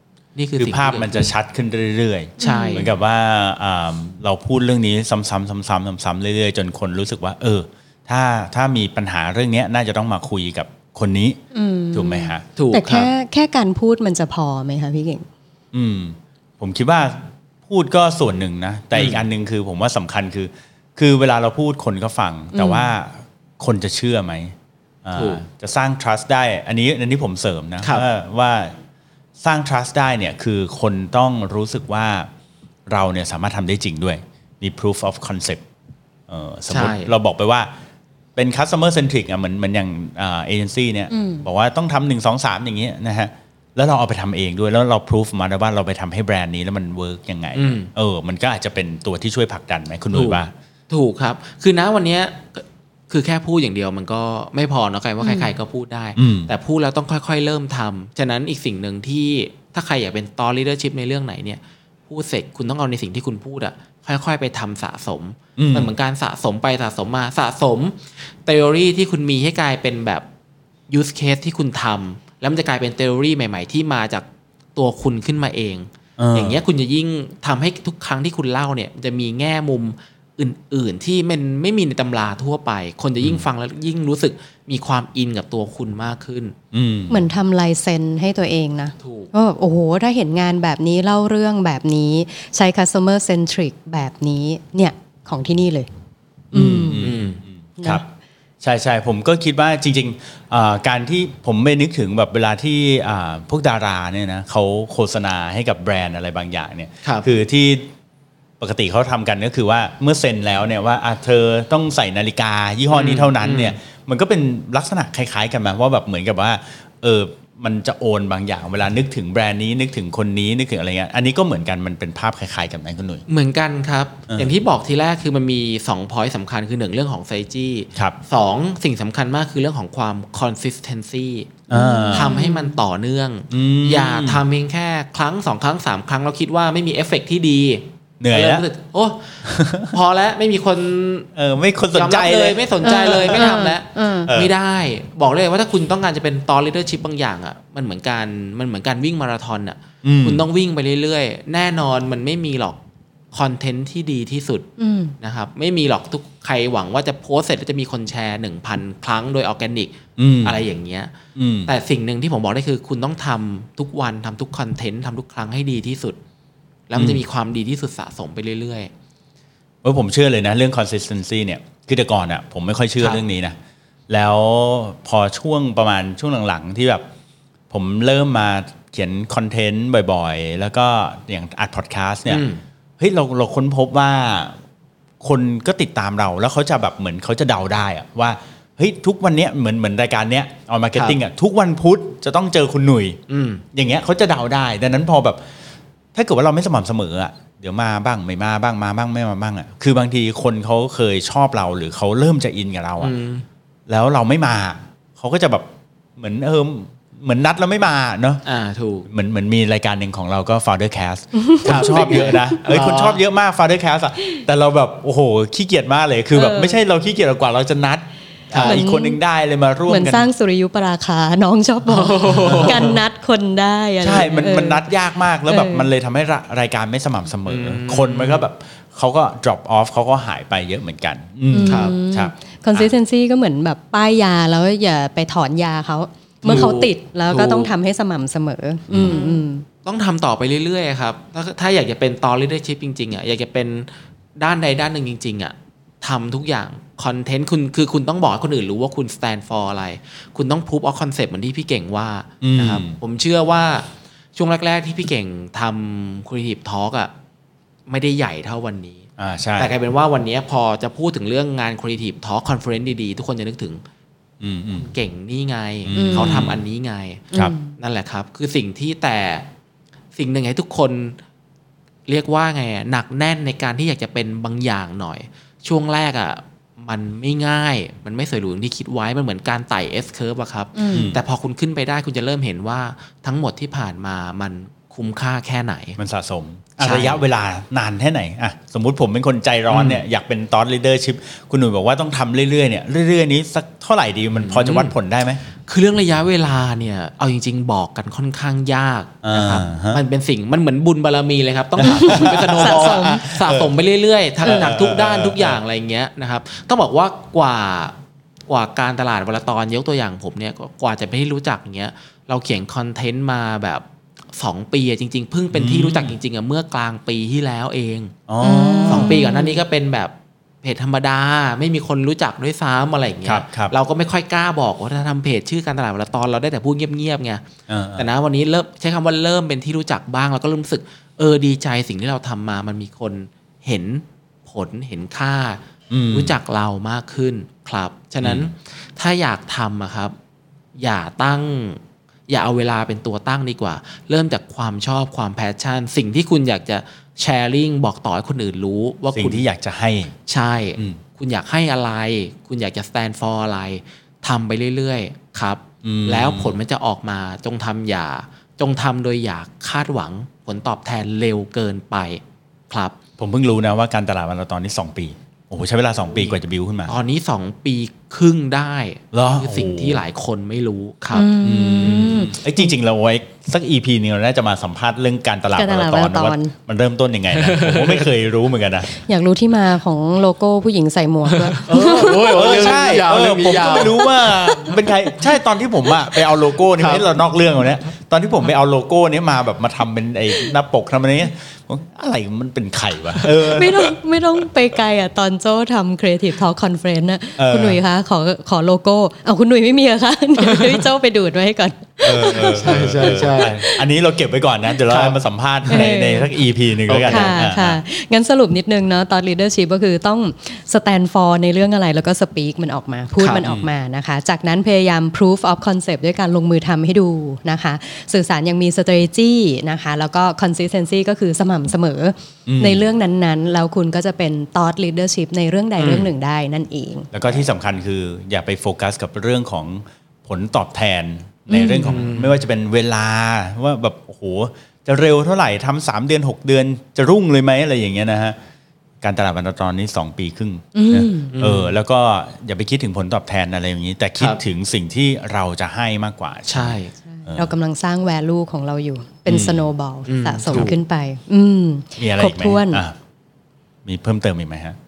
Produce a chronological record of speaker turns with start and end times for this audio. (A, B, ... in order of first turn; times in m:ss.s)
0:00.3-0:01.3 A
0:00.6-0:11.4 B
0:02.4-0:02.9 C
0:11.5-0:15.2 C
0:11.9-0:12.4 B
0:12.6-0:13.1 A
0:15.7-0:28.7 B
0:18.9-0:19.2 A
0:22.5-0:22.9 C
0:25.1-0:25.4 A
0:29.4-0:32.3 B
0:32.9-0:35.6 B
0:36.3-0:37.7 B
0:36.7-0:37.1 A
0:38.4-0:50.5 B
0:41.1-0:41.5 C
0:47.5-0:47.9 A
0:50.1-1:10.2 A
0:55.2-0:55.5 C
0:56.2-0:56.5 B
1:05.6-1:05.9 B
1:10.9-1:26.5 A
1:16.2-1:16.6 B
1:26.7-1:27.2 B
1:27.1-1:35.9 C
1:29.0-1:29.3 A
1:36.5-1:37.1 C
1:36.5-1:38.0 B
1:37.0-1:37.4 A
1:38.6-1:47.9 B
1:48.6-2:03.2 B
1:52.9-1:53.8 A
2:03.3-2:21.3 A
2:11.7-2:12.4 B
2:11.7-2:12.7 C
2:13.5-2:14.4 B
2:18.2-2:18.6 B
2:19.4-2:19.9 B
2:21.3-2:23.5 B
2:21.9-2:32.8 A
2:22.8-2:24.3 C
2:24.3-2:24.5 B
2:30.0-2:30.4 B
2:33.3-2:34.7 A
2:34.8-2:35.2 C
2:35.2-2:41.1 A
2:40.2-2:40.6 B
2:41.3-2:41.7 B
2:41.6-2:46.2 A
2:46.9-2:48.9 A
2:46.9-2:47.2 B
2:49.8-2:53.6 B
2:54.1-2:57.0 B
2:57.7-3:02.4 B
3:02.3-3:02.6 A
3:03.0-3:04.5 B
3:05.2-3:13.2 B
3:13.3-3:13.6 A
3:13.7-3:15.4 B
3:16.1-3:23.1 B
3:23.0-3:23.4 A
3:23.9-3:28.4 B
3:28.4-3:29.1 A
3:29.0-3:40.3 B
3:31.3-3:32.4 C
3:31.6-3:33.2 A
3:36.3-3:36.8 C
3:38.5-3:38.8 A
3:38.6-3:39.2 C
3:39.9-3:45.9 C
3:41.8-3:43.0 A
3:42.4-3:43.0 B
3:44.0-3:52.9 B
3:47.4-3:48.4 A
3:51.5-3:59.6 C
3:51.6-3:51.9 A
3:56.4-3:57.7 A
3:58.9-3:59.2 B
3:58.9-4:17.1 A
4:12.4-4:13.0 B
4:17.9-4:19.0 A
4:19.2-4:19.7 B
4:19.6-4:23.8 A
4:24.4-4:24.9 B
4:24.7-4:29.5 A
4:25.8-4:26.6 B
4:25.9-4:26.5 C
4:27.3-4:27.7 C
4:30.2-4:31.2 A
4:32.1-4:46.0 A
4:40.7-4:41.1 C
4:40.9-4:41.2 B
4:46.0-4:55.4 B
4:46.8-4:47.2 A
4:49.7-4:50.0 A
4:54.3-4:54.9 A
4:55.7-5:18.1 A
4:59.2-5:00.0 B
5:01.8-5:03.7 B
5:01.8-5:03.3 C
5:04.4-5:05.6 B
5:04.4-5:04.7 C
5:15.5-5:16.1 B
5:18.3-5:19.1 B
5:18.4-5:19.6 C
5:18.8-5:27.4 A
5:23.2-5:23.7 B
5:27.7-5:28.1 B
5:28.0-5:40.1 A
5:35.9-5:36.3 B
5:38.2-5:38.5 B
5:40.8-5:49.4 A
5:49.1-5:50.1 B
5:50.3-6:03.0 A
5:55.8-5:56.5 B
6:03.2-6:06.9 B
6:06.1-6:11.3 A
6:09.1-6:10.0 B
6:11.1-6:12.6 C
6:11.4-6:18.9 B
6:11.8-6:12.2 A
6:15.5-6:16.5 C
6:17.3-6:18.1 A
6:18.9-6:22.4 C
6:21.3-6:24.7 A
6:22.3-6:33.9 B
6:26.8-6:27.1 A
6:33.4-6:43.8 C
6:37.4-6:37.8 B
6:40.4-6:40.8 A
6:42.0-6:47.8 B
6:42.5-6:43.6 A
6:44.9-6:45.2 A
6:45.7-6:46.3 C
6:46.9-6:47.4 A
6:47.0-7:07.1 C
6:53.2-6:53.4 A
6:53.4-6:53.7 B
7:02.5-7:02.9 B
7:05.8-7:06.1 A
7:07.1-7:18.4 B
7:11.5-7:12.0 C
7:11.8-7:12.4 A
7:19.0-7:27.5 B
7:20.7-7:21.3 C
7:21.3-7:21.7 A
7:26.5-7:26.9 A
7:27.0-7:32.8 C
7:29.3-7:29.7 B
7:30.0-7:30.7 A
7:30.5-7:30.8 B
7:32.0-7:32.9 B
7:33.8-7:34.8 B